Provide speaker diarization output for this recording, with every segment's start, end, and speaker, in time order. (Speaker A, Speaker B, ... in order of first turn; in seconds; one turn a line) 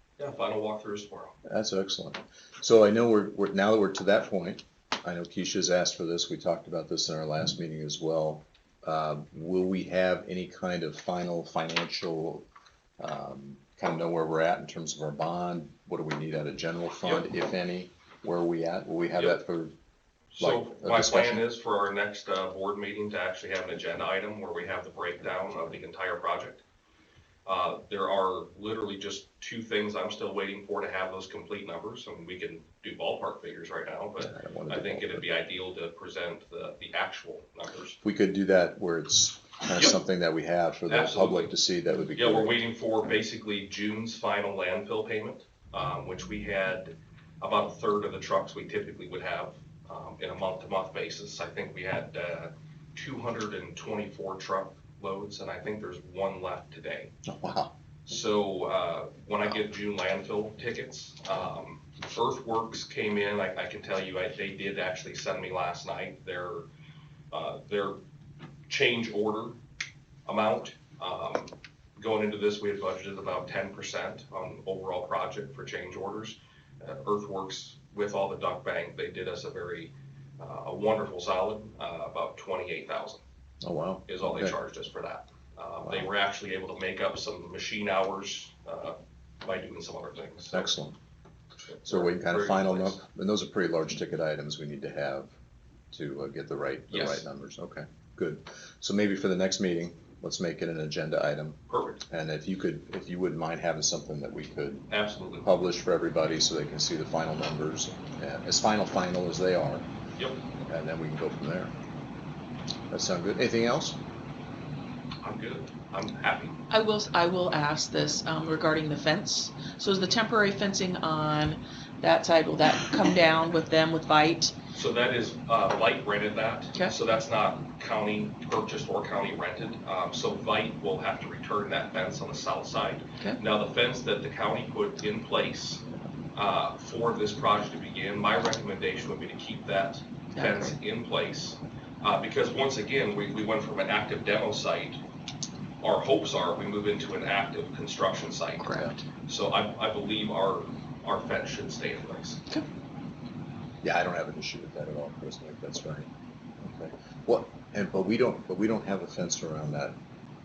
Speaker A: 0.2-1.3
Speaker B: 1.4-12.4
Speaker B: 13.0-19.7
Speaker A: 20.3-26.6
Speaker B: 20.4-21.4
Speaker A: 27.4-38.0
Speaker B: 34.2-35.2
Speaker B: 38.0-42.6
Speaker A: 40.9-41.5
Speaker A: 42.1-57.1
Speaker B: 57.2-57.7
Speaker A: 58.1-66.7
Speaker A: 67.3-68.0
Speaker A: 68.7-69.6
Speaker A: 70.2-83.2
Speaker B: 83.6-84.5
Speaker A: 84.0-90.7
Speaker B: 90.5-91.0
Speaker A: 91.7-93.0
Speaker B: 91.8-95.3
Speaker B: 95.9-104.9
Speaker A: 96.9-97.2
Speaker A: 101.7-102.0
Speaker A: 104.9-105.5
Speaker B: 105.4-109.9
Speaker A: 110.2-110.4
Speaker B: 110.6-111.7
Speaker B: 112.9-114.0
Speaker A: 115.2-116.6
Speaker C: 116.7-124.5
Speaker A: 124.7-135.8
Speaker A: 136.3-145.0
Speaker C: 140.3-140.7
Speaker A: 145.8-148.7
Speaker C: 148.6-149.0
Speaker A: 149.2-152.4
Speaker B: 153.8-156.1
Speaker B: 156.6-159.9